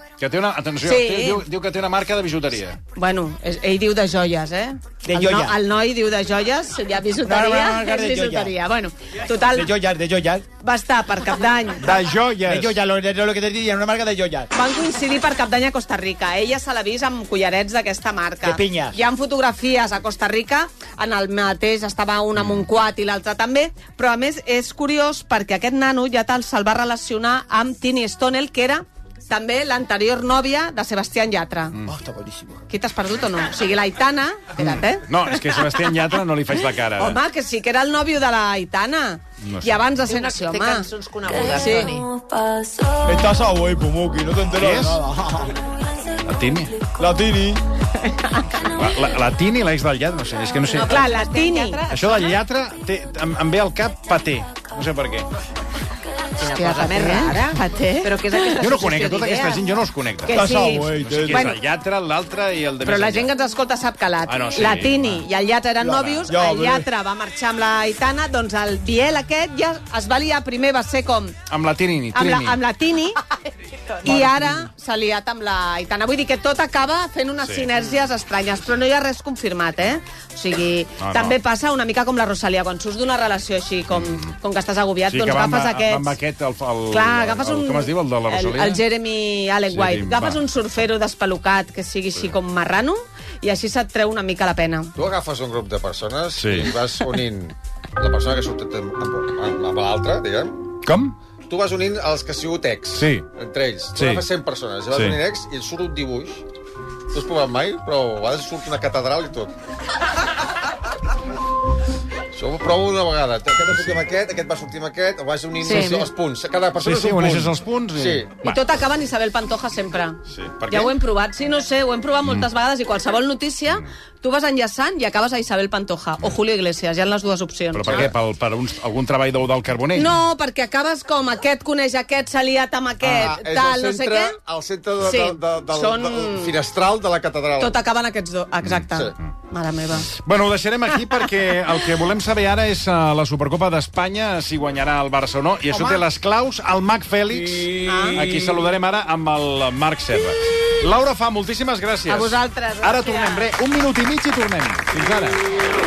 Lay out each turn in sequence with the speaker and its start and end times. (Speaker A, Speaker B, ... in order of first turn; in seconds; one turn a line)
Speaker A: 0.2-2.8
Speaker B: 0.8-1.3
Speaker C: 0.9-1.3
Speaker B: 3.0-9.7
Speaker D: 5.0-5.6
Speaker D: 7.2-8.5
Speaker D: 9.5-10.4
Speaker B: 10.6-11.9
Speaker A: 11.8-12.8
Speaker D: 11.9-14.5
Speaker B: 14.5-31.8
Speaker D: 18.4-18.9
Speaker D: 31.9-32.6
Speaker B: 32.7-35.6
Speaker A: 34.6-37.2
Speaker B: 37.0-40.9
Speaker A: 39.4-39.9
Speaker C: 40.0-42.1
Speaker B: 41.5-41.9
Speaker E: 43.0-45.4
Speaker A: 44.6-45.0
Speaker A: 46.2-46.8
Speaker E: 47.0-47.6
Speaker B: 48.0-48.4
Speaker A: 48.6-51.0
Speaker C: 50.7-52.3
Speaker B: 50.8-51.8
Speaker A: 51.9-55.3
Speaker C: 56.4-59.6
Speaker B: 56.4-58.6
Speaker A: 58.6-63.3
Speaker B: 60.3-61.6
Speaker E: 60.3-61.5
Speaker B: 62.8-71.4
Speaker A: 64.3-65.2
Speaker D: 65.8-66.3
Speaker E: 66.3-66.8
Speaker A: 71.5-72.6
Speaker B: 72.1-73.2
Speaker B: 74.0-86.1
Speaker A: 81.0-81.4
Speaker A: 83.9-84.3
Speaker A: 85.1-88.8
Speaker B: 86.9-94.9
Speaker A: 89.7-90.4
Speaker F: 95.0-100.7
Speaker A: 96.4-96.7
Speaker A: 100.8-101.1
Speaker F: 101.5-106.4
Speaker A: 102.9-103.2
Speaker A: 103.9-104.2
Speaker A: 104.9-105.2
Speaker F: 107.1-109.5
Speaker F: 112.3-118.3
Speaker A: 113.6-114.0
Speaker B: 115.6-116.0
Speaker A: 115.7-116.0
Speaker A: 116.8-118.6
Speaker B: 118.4-128.1
Speaker A: 120.3-120.9
Speaker A: 127.7-130.2
Speaker B: 129.9-134.4
Speaker A: 133.1-133.3
Speaker F: 133.1-137.8
Speaker B: 135.0-136.5
Speaker B: 137.6-140.1
Speaker A: 140.1-155.4
Speaker E: 147.3-148.7
Speaker B: 147.9-148.2
Speaker B: 152.1-153.5